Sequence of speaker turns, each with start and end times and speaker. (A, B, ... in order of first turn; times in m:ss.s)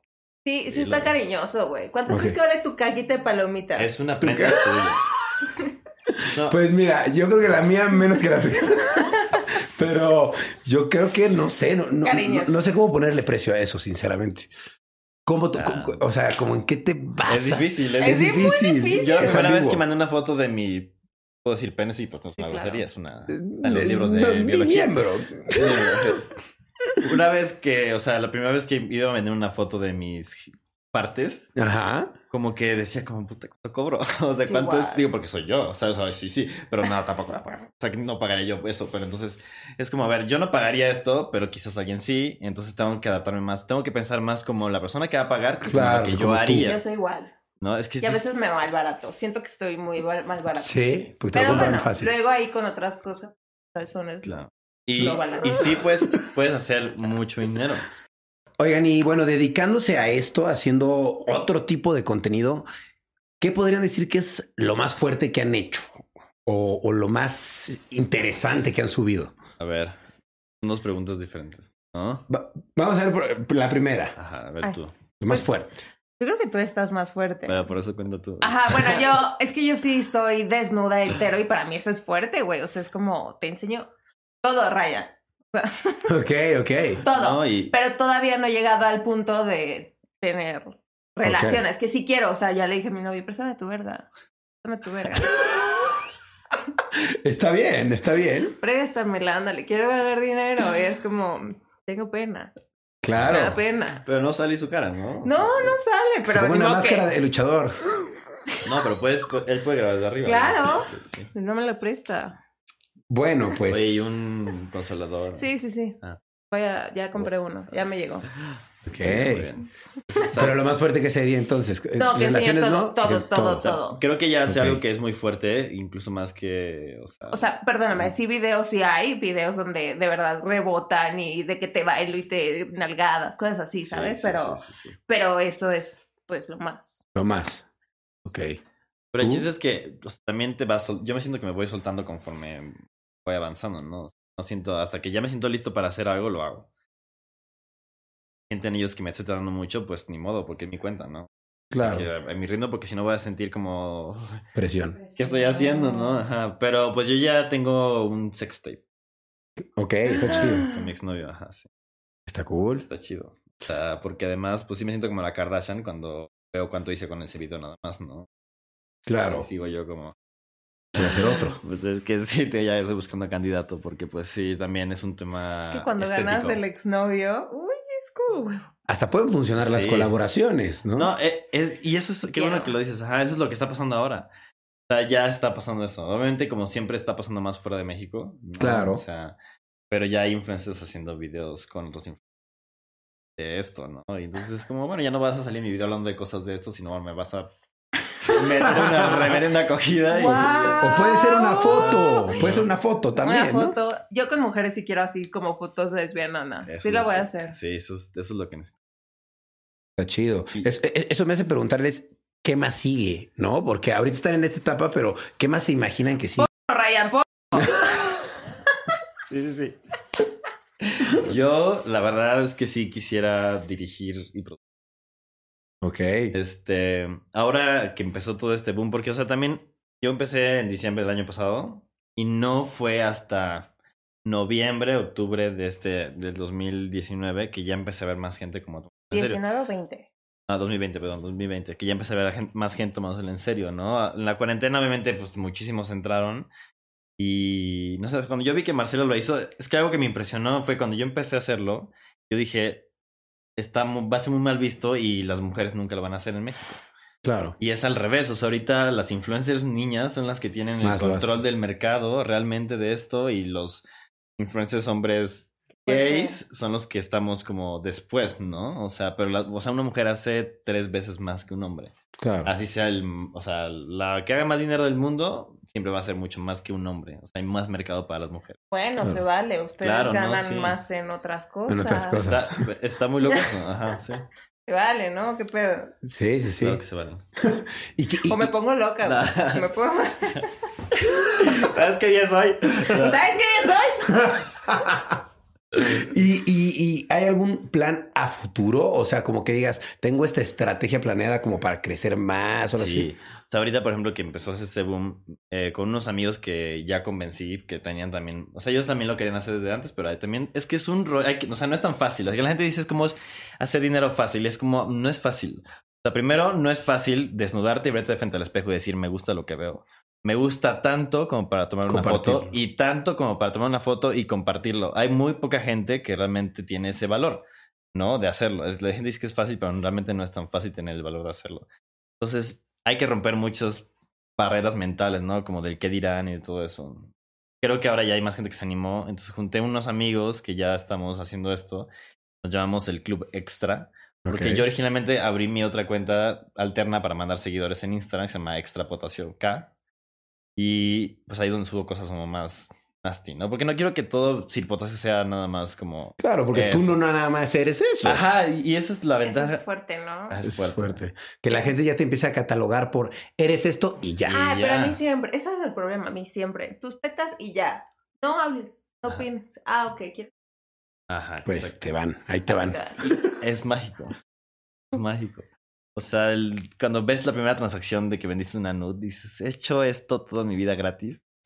0:00.4-0:03.9 A
0:00.7-0:01.1 B
0:02.1-0:02.4 C
0:03.8-0:05.0 B
0:04.2-0:04.8 C
0:06.3-0:06.6 B
0:06.4-0:14.5 C
0:12.0-0:12.6 A
0:15.2-0:19.8 C
0:15.5-0:16.0 B
0:17.2-0:20.9 B
0:18.0-0:19.4 A
0:21.4-0:25.0 B
0:22.4-0:22.8 A
0:23.3-0:26.2 C
0:25.5-0:26.3 B
0:27.0-0:31.5 B
0:31.6-0:32.1 C
0:32.3-0:46.8 B
0:34.5-0:35.0 A
0:45.6-0:46.7 C
0:46.6-0:47.3 A
0:47.6-0:48.2 B
0:48.0-0:54.3 A
0:50.5-0:52.1 C
0:51.4-0:51.8 B
0:54.2-0:57.8 B
0:55.0-0:55.7 A
0:58.6-1:02.6 C
1:03.4-1:09.3 C
1:09.6-1:10.0 B
1:10.6-1:12.2 B
1:12.3-1:14.2 C
1:14.2-1:14.9 B
1:15.2-1:15.8 C
1:16.2-1:17.6 A
1:17.5-1:19.1 B
1:18.4-1:23.9 A
1:24.4-1:25.9 A
1:26.1-1:27.0 C
1:27.0-1:34.1 A
1:27.1-1:27.7 B
1:31.2-1:31.6 C
1:34.6-1:35.6 A
1:36.9-1:38.6 C
1:38.6-1:42.5 A
1:43.0-1:43.6 C
1:43.2-1:44.0 A
1:44.0-1:45.8 B
1:45.2-1:47.1 A
1:46.3-1:47.8 C
1:48.6-1:51.3 B
1:50.2-1:52.4 A
1:53.1-1:54.1 C
1:53.7-1:55.5 B
1:55.3-1:56.0 A
1:56.5-1:58.3 A
1:58.8-2:00.7 B
1:58.9-1:59.5 C
2:00.3-2:03.7 C
2:02.0-2:04.0 A
2:03.6-2:08.1 B
2:04.5-2:04.8 C
2:07.3-2:17.0 A
2:13.9-2:15.0 B
2:17.1-2:17.6 C
2:18.2-2:18.6 C
2:19.1-2:26.7 B
2:19.2-2:19.4 C
2:28.5-2:34.4 B
2:31.7-2:32.1 C
2:34.5-2:35.0 C
2:35.0-2:36.2 A
2:35.2-2:38.8 B
2:39.7-2:40.6 C
2:40.1-2:40.8 A
2:40.2-2:41.7 B
2:42.3-2:42.9 C
2:42.9-2:48.3 B
2:49.0-2:49.5 C
2:49.3-2:50.1 B
2:51.0-2:51.6 C
2:51.6-2:56.6 B
2:55.6-2:58.6 A
2:58.9-3:01.1 C
2:59.6-3:00.1 B
3:01.0-3:04.3 B
3:02.3-3:02.7 A
3:04.9-3:09.4 B
3:08.6-3:09.0 C
3:09.9-3:12.2 B
3:13.4-3:17.5 B
3:18.2-3:20.9 B
3:18.6-3:19.4 C
3:20.1-3:22.3 A
3:20.8-3:23.7 C
3:21.7-3:22.7 B
3:23.2-3:27.6 A
3:26.6-3:28.8 B
3:30.0-3:36.5 C
3:36.4-3:38.1 A
3:39.3-3:39.8 B
3:40.8-3:44.6 B
3:45.8-3:46.3 C
3:46.3-3:53.7 B
3:54.2-3:59.4 B
3:59.1-4:00.1 A
4:00.5-4:06.5 B
4:07.2-4:12.8 B
4:13.6-4:16.8 B
4:17.2-4:17.6 C
4:17.6-4:23.8 B
4:20.8-4:21.3 C
4:24.4-4:31.9 B
4:25.8-4:26.4 A
4:32.2-4:32.5 C
4:32.4-4:38.6 B
4:38.7-4:42.2 A
4:39.8-4:40.8 B
4:41.7-4:42.6 C
4:42.2-4:44.2 B
4:44.7-4:45.9 A
4:46.0-4:46.8 C
4:46.6-4:47.2 B
4:47.4-4:48.5 C
4:48.3-4:50.5 A
4:49.0-4:49.6 B
4:51.1-4:53.2 B
4:52.9-4:54.1 A
4:54.2-4:55.1 C
4:55.8-4:56.1 B
4:56.0-5:03.1 C
5:02.8-5:31.6 B
5:21.9-5:22.6 C
5:32.2-5:41.9 B
5:42.4-5:49.7 B
5:44.2-5:44.6 C
5:50.6-5:57.0 B
5:56.2-5:58.2 C
5:58.0-5:59.6 B
5:59.2-6:00.4 A
6:00.3-6:01.0 B
6:00.4-6:04.4 C
6:04.3-6:05.0 B
6:04.3-6:10.3 A
6:11.1-6:11.7 B
6:11.4-6:13.2 C
6:12.5-6:13.1 A
6:13.4-6:14.2 B
6:14.9-6:21.2 B